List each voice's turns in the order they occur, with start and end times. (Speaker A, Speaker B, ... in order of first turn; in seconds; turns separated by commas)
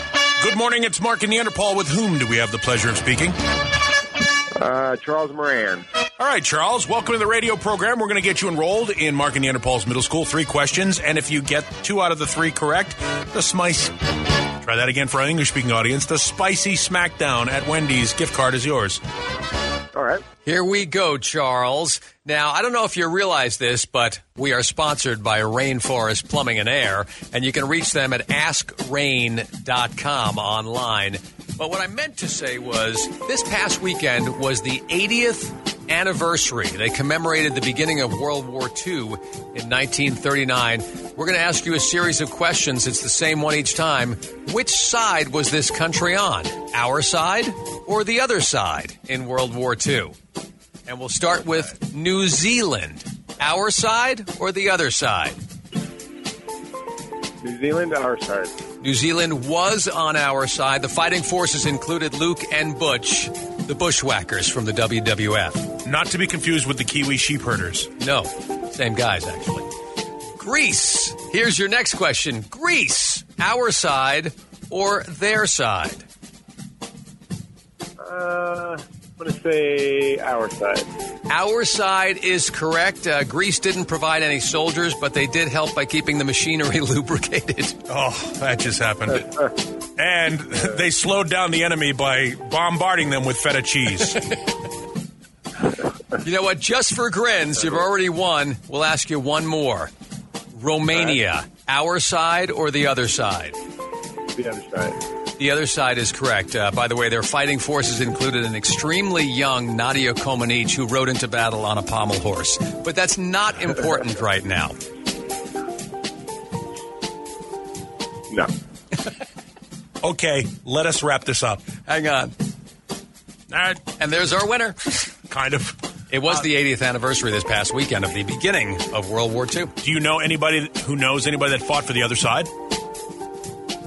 Speaker A: 0.4-3.4, Speaker B: 4.5-5.8, Speaker A: 6.2-13.9, Speaker A: 14.6-19.0, Speaker B: 19.9-20.2, Speaker C: 20.4-50.1, Speaker C: 50.9-55.4, Speaker B: 57.4-58.5, Speaker C: 58.8-65.7, Speaker A: 65.8-67.9, Speaker C: 68.0-69.7, Speaker C: 70.4-76.0, Speaker B: 78.0-80.9, Speaker C: 81.3-87.8, Speaker A: 87.9-89.3, Speaker A: 90.0-94.2, Speaker C: 96.2-99.9, Speaker C: 100.5-103.5, Speaker B: 104.3-105.0, Speaker C: 105.4-114.8, Speaker A: 120.0-121.6, Speaker C: 121.8-122.3, Speaker A: 123.5-123.8, Speaker C: 124.0-124.8, Speaker A: 125.3-125.8, Speaker C: 126.1-129.7, Speaker A: 129.8-132.5